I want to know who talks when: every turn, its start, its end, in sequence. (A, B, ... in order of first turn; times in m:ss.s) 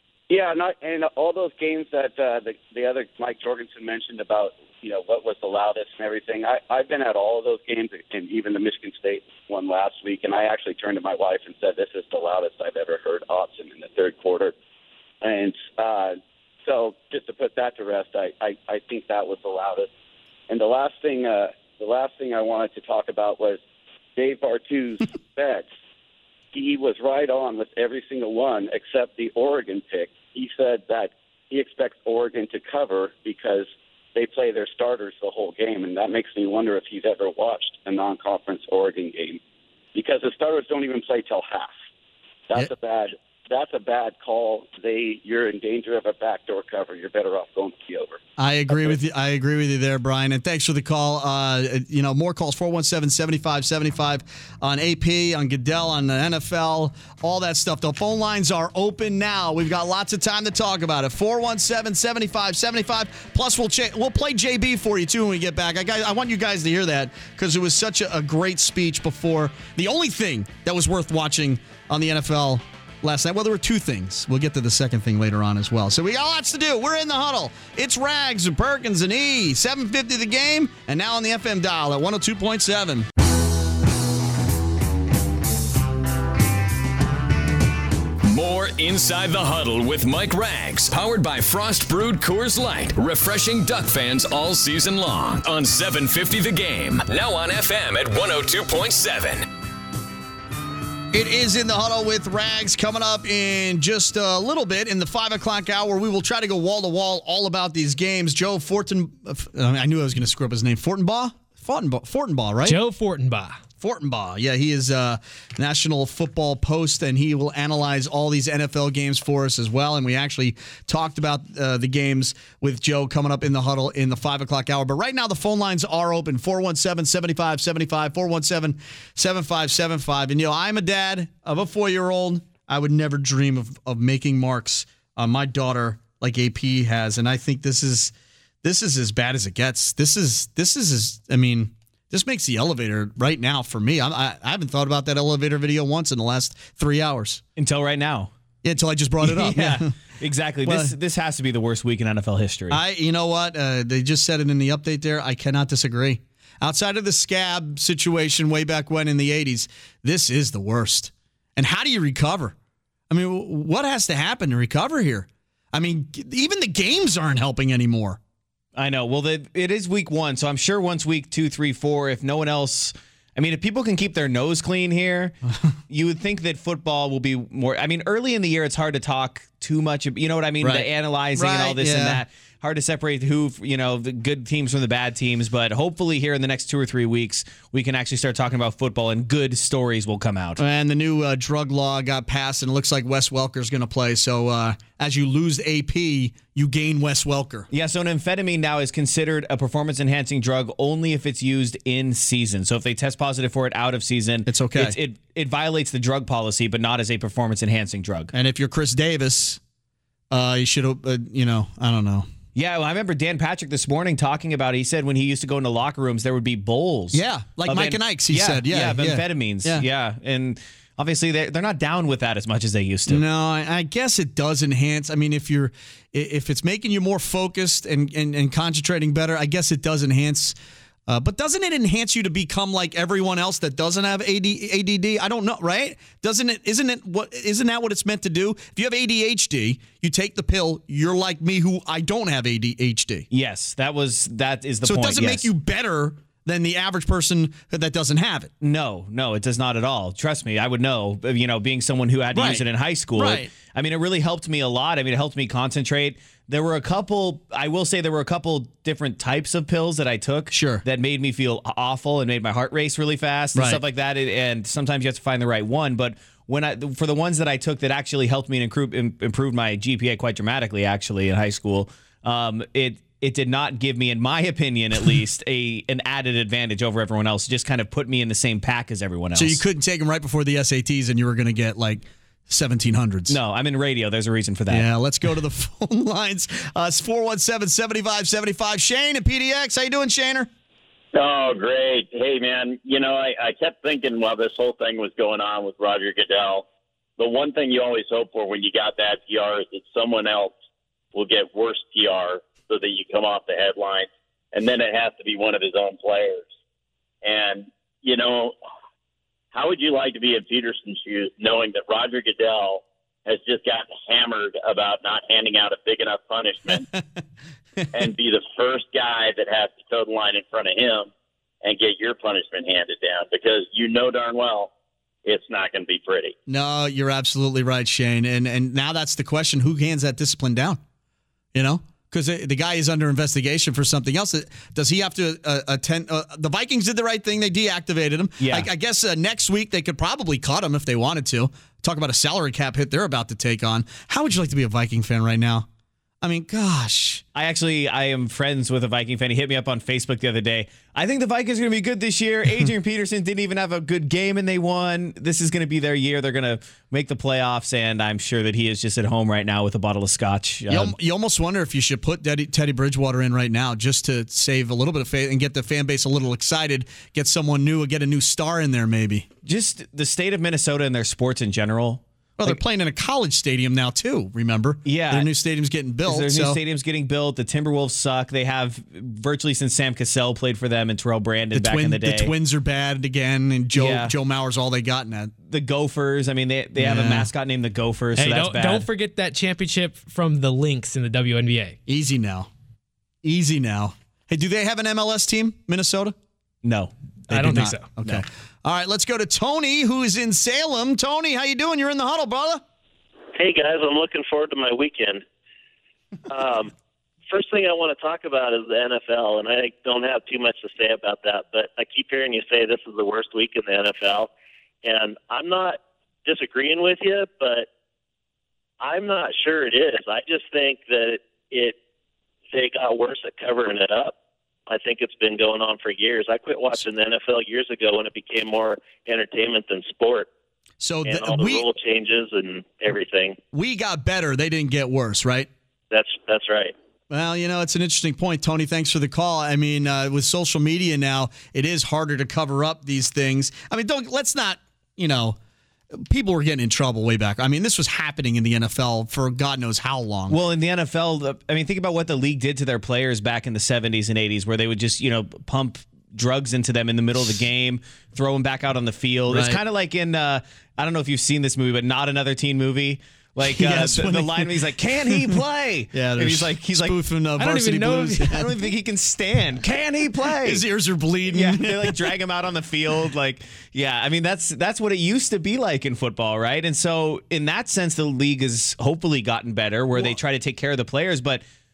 0:00.3-0:14.5 A
0:15.2-0:19.9 A
0:20.5-0:23.6 A
0:24.2-0:25.7 A
0:26.5-0:39.4 A
0:39.9-0:41.7 A
0:42.5-0:48.2 A
0:48.4-1:23.1 B
1:28.2-1:39.4 C
1:41.1-1:52.8 B
1:52.6-1:53.6 D
1:53.8-2:27.4 B
2:27.6-2:28.3 E
2:28.6-2:29.9 B
2:29.2-2:32.8 E
2:30.6-2:30.9 B
2:32.7-2:42.5 B
2:43.1-2:48.2 B
2:48.8-2:55.4 E
2:55.9-3:10.6 E
3:00.6-3:02.2 B
3:10.6-3:17.7 B
3:17.7-3:28.3 E
3:24.4-3:25.0 B
3:28.3-3:29.6 B
3:30.3-3:32.3 B
3:32.5-3:43.2 E
3:37.1-3:39.8 B
3:43.1-3:50.6 B
3:51.1-4:03.3 B
4:03.3-4:05.5 E
4:04.8-4:08.5 B
4:08.6-4:39.6 E
4:12.3-4:12.6 B
4:13.2-4:13.5 B
4:20.5-4:20.8 B
4:23.5-4:23.8 B
4:39.3-4:43.4 B
4:43.3-4:44.9 E
4:44.7-4:50.5 B
4:51.1-4:56.6 F
4:57.2-5:00.5 F
5:01.1-5:06.5 F
5:07.2-5:08.5 F
5:09.5-5:16.8 F
5:17.9-5:21.1 F
5:21.6-5:24.7 F
5:25.2-5:26.3 F
5:26.5-5:30.8 B
5:31.5-5:45.7 B
5:38.4-5:38.7 E
5:46.2-5:47.2 B
5:47.3-6:00.9 E
6:00.7-6:09.3 B
6:09.4-6:12.6 E
6:12.4-6:16.6 B
6:14.8-6:15.3 E
6:16.0-6:22.3 E
6:21.5-6:25.3 B
6:23.7-6:24.1 E
6:25.5-6:28.9 E
6:26.8-6:27.3 B
6:28.2-6:31.8 D
6:31.9-6:32.5 B
6:33.2-6:36.2 B
6:36.6-6:36.9 E
6:37.3-6:42.6 B
6:37.3-6:37.9 D
6:43.3-6:45.2 G
6:46.3-6:46.7 G
6:47.3-6:54.3 G
6:54.8-6:57.7 G
6:58.8-7:01.8 G
7:02.5-7:04.1 G
7:04.7-7:10.3 G
7:10.8-7:11.6 B
7:11.0-7:13.4 G
7:13.5-7:15.5 B
7:15.9-7:16.7 G
7:17.1-7:25.4 B
7:25.9-7:30.4 B
7:30.3-7:47.0 E
7:39.3-7:39.6 B
7:43.4-7:45.4 B
7:45.9-7:48.5 B
7:47.4-7:48.2 D
7:48.3-7:50.6 E
7:50.3-7:52.0 B
7:51.3-8:01.4 E